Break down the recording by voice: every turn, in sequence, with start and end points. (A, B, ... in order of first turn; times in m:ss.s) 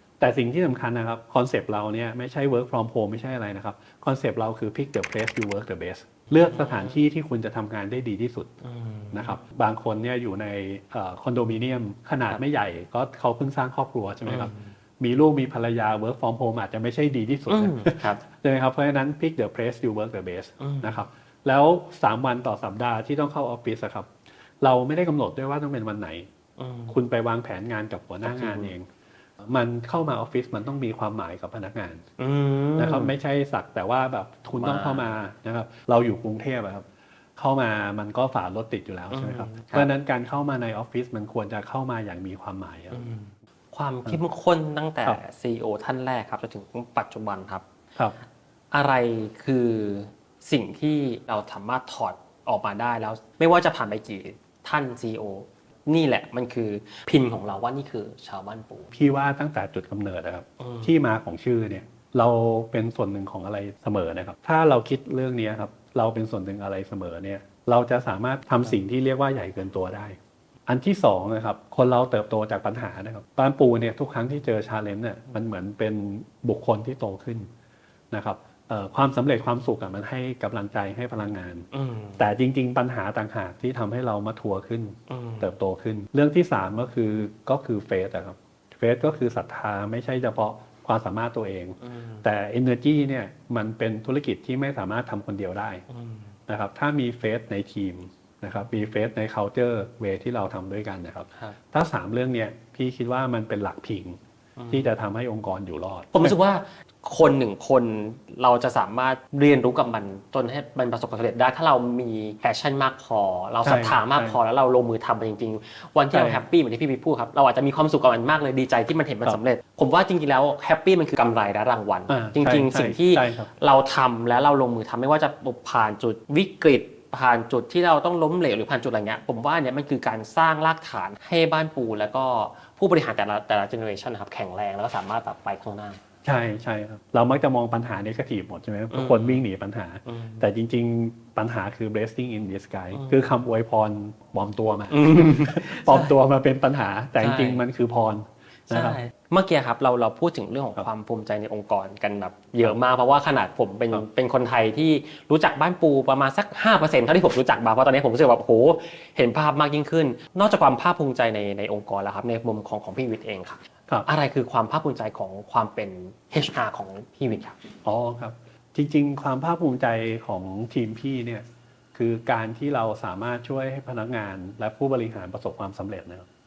0:00.2-0:08.5 A
0:06.4-0:07.0 B
0:08.6-0:09.4 B
0:09.1-0:24.1 A
0:14.3-0:14.8 B
0:17.5-0:18.2 B
0:20.6-0:21.0 B
0:24.6-0:26.3 A
0:26.6-0:27.0 B
0:26.9-0:28.9 A
0:28.3-0:28.7 B
0:29.4-0:32.0 A
0:32.2-0:33.1 B
0:32.8-0:36.9 A
0:34.6-0:35.1 B
0:37.4-0:43.1 A
0:39.1-0:39.9 B
0:42.9-0:47.6 B
0:48.7-0:58.9 B
0:58.9-1:10.2 A
1:00.6-1:00.9 B
1:10.7-1:17.5 A
1:18.1-1:35.8 A
1:21.7-1:22.2 B
1:25.1-1:25.5 B
1:31.8-1:32.2 B
1:35.9-1:36.3 B
1:36.5-1:44.2 A
1:44.6-1:44.9 B
1:44.7-1:46.4 A
1:46.1-2:16.0 B
1:53.6-1:54.4 A
1:56.1-1:56.4 A
2:02.1-2:03.5 A
2:16.2-2:29.0 A
2:18.9-2:19.4 B
2:20.1-2:20.4 B
2:22.9-2:23.2 B
2:24.9-2:26.1 B
2:27.2-2:27.6 B
2:28.7-2:47.6 B
2:47.8-2:56.3 A